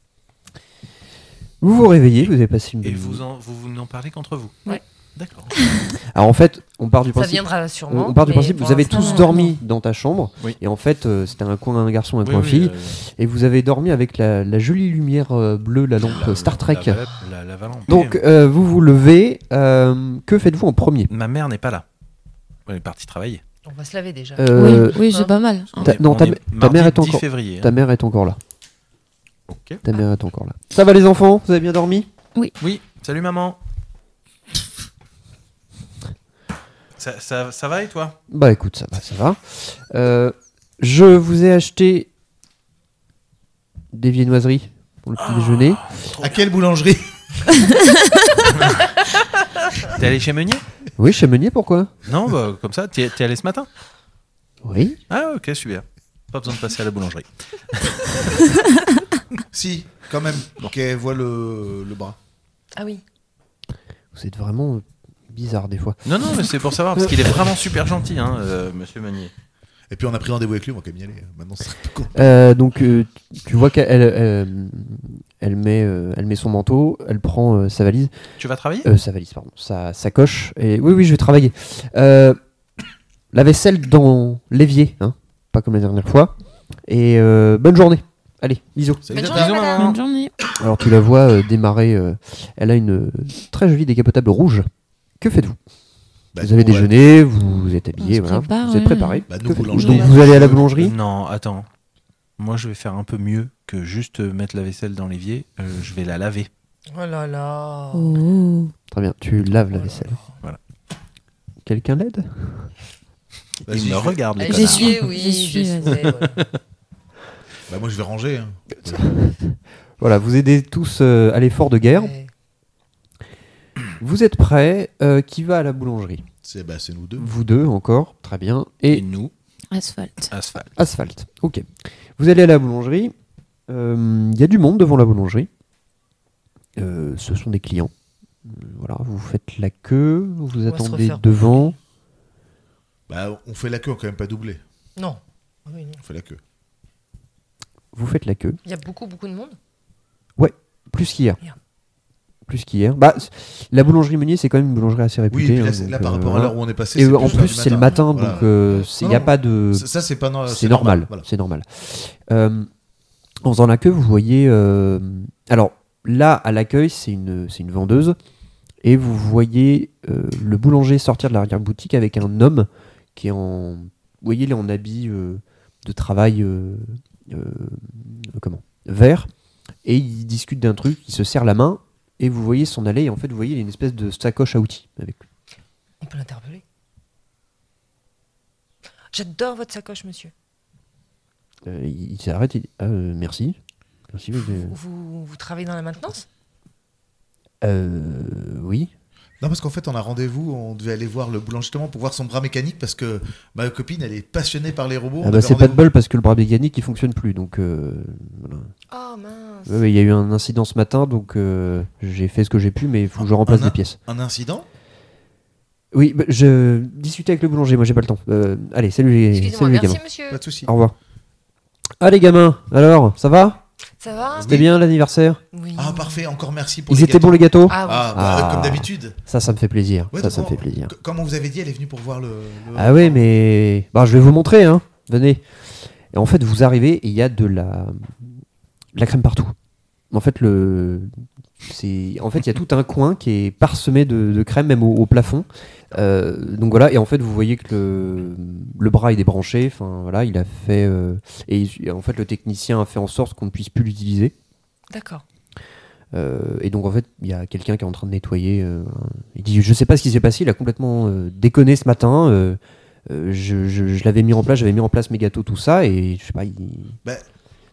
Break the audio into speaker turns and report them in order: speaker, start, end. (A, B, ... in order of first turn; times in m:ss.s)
0:01.6-0:03.2 A
0:02.8-0:05.5 B
0:05.6-0:05.9 C
0:06.1-0:17.0 A
0:07.1-0:09.5 D
0:08.9-0:09.5 C
0:12.2-0:13.0 B
0:16.0-0:18.2 B
0:17.9-0:21.1 A
0:21.1-0:21.8 B
0:22.7-0:23.4 B
0:23.6-0:25.3 D
0:24.4-0:25.1 A
0:24.5-0:26.0 C
0:25.8-0:27.7 B
0:25.8-0:28.4 A
0:29.5-0:29.8 B
0:29.8-0:32.1 A
0:32.6-0:33.6 B
0:37.0-0:38.2 B
0:38.3-0:42.1 A
0:43.9-0:45.8 A
0:45.2-0:46.4 B
0:46.2-0:47.2 E
0:48.5-0:48.9 B
0:49.9-0:50.6 B
0:51.0-0:51.9 A
0:52.0-0:53.7 B
0:54.6-0:55.0 A
0:55.1-0:58.4 B
0:59.5-1:02.2 E
1:02.8-1:03.0 D
1:04.1-1:06.1 A
1:06.0-1:09.3 B
1:07.0-1:07.2 A
1:09.9-1:12.3 E
1:12.1-1:18.1 A
1:18.4-1:18.9 B
1:18.8-1:22.4 A
1:23.3-1:26.3 A
1:26.9-1:29.1 A
1:29.0-1:29.6 E
1:29.1-1:30.0 D
1:29.2-1:30.0 B
1:29.6-1:30.3 C
1:30.6-1:34.7 A
1:35.2-1:35.6 A
1:36.3-1:36.9 E
1:36.4-1:40.9 A
1:38.0-1:40.1 C
1:39.3-1:40.9 E
1:40.8-1:41.7 B
1:42.4-1:46.5 B
1:46.9-1:48.2 D
1:47.9-1:48.7 C
1:48.9-1:50.2 A
1:49.7-1:50.4 D
1:51.6-1:52.7 A
1:53.6-1:55.1 B
1:53.7-1:54.2 E
1:54.4-1:56.4 D
1:54.4-1:56.1 C
1:57.7-1:59.0 E
1:58.8-2:02.1 A
2:01.9-2:02.3 D
2:04.0-2:06.2 A
2:06.4-2:07.3 E
2:07.2-2:09.0 A
2:08.9-2:09.3 B
2:09.7-2:10.3 C
2:10.3-2:10.8 B
2:10.8-2:11.7 A
2:12.2-2:13.1 A
2:13.7-2:15.5 A
2:16.8-2:17.9 A
2:18.4-2:21.8 A
2:20.7-2:21.7 D
2:23.1-2:24.6 E
2:25.0-2:26.0 D
2:26.0-2:26.4 E
2:27.9-2:28.6 A
2:28.6-2:29.6 D
2:30.4-2:31.4 A
2:32.5-2:39.9 A
2:35.3-2:41.3 E
2:37.2-2:38.9 D
2:40.5-2:42.7 A
2:43.4-2:48.2 A
2:48.8-2:59.3 A
2:59.8-3:05.2 A
3:06.0-3:06.6 D
3:09.1-3:10.3 D
3:11.7-3:13.6 A
3:14.1-3:14.8 A
3:14.5-3:16.3 D
3:17.6-3:18.9 A
3:19.4-3:25.9 E
3:25.2-3:28.7 A
3:28.9-3:29.8 D
3:29.7-3:34.0 A
3:33.2-3:34.7 E
3:35.9-3:40.0 A
3:39.3-3:40.4 D
3:40.3-3:40.7 E
3:40.6-3:41.0 A
3:42.0-3:43.6 A
3:44.0-3:44.7 D
3:44.3-3:44.7 E
3:44.5-3:45.4 A
3:45.5-3:46.2 D
3:45.8-3:49.2 E
3:46.9-3:50.9 A
3:47.7-3:48.2 D
3:50.1-3:53.2 E
3:52.8-3:55.4 A
3:56.1-3:58.4 A
3:59.0-3:59.6 A
4:00.1-4:14.3 A
4:14.9-4:15.2 D
4:16.1-4:27.0 A